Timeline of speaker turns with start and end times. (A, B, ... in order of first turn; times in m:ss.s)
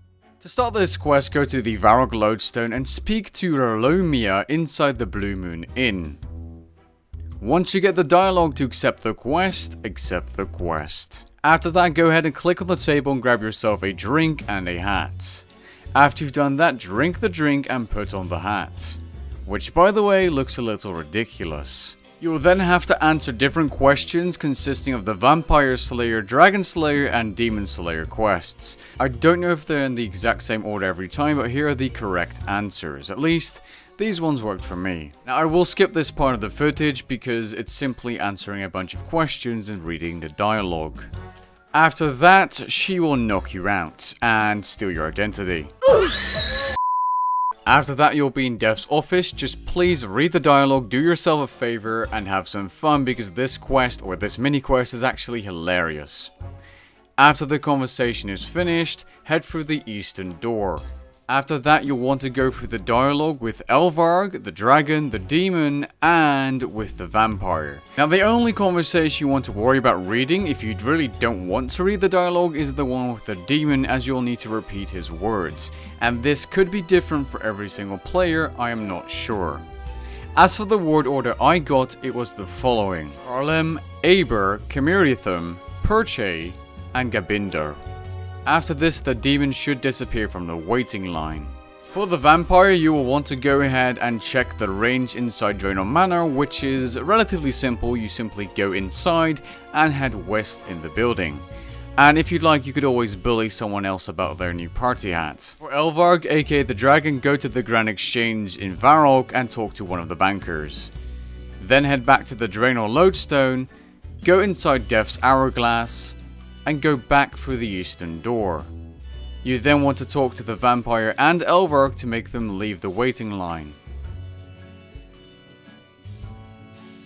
0:00.4-0:06.2 A
0:07.4-0:41.1 A
0:41.7-0:45.7 A
0:47.6-0:56.3 A
0:57.2-1:19.6 A
1:20.4-1:27.8 A
1:28.4-1:41.4 A
1:42.0-1:50.9 A
1:51.6-1:53.7 A
1:54.2-1:58.7 A
1:59.4-2:03.8 A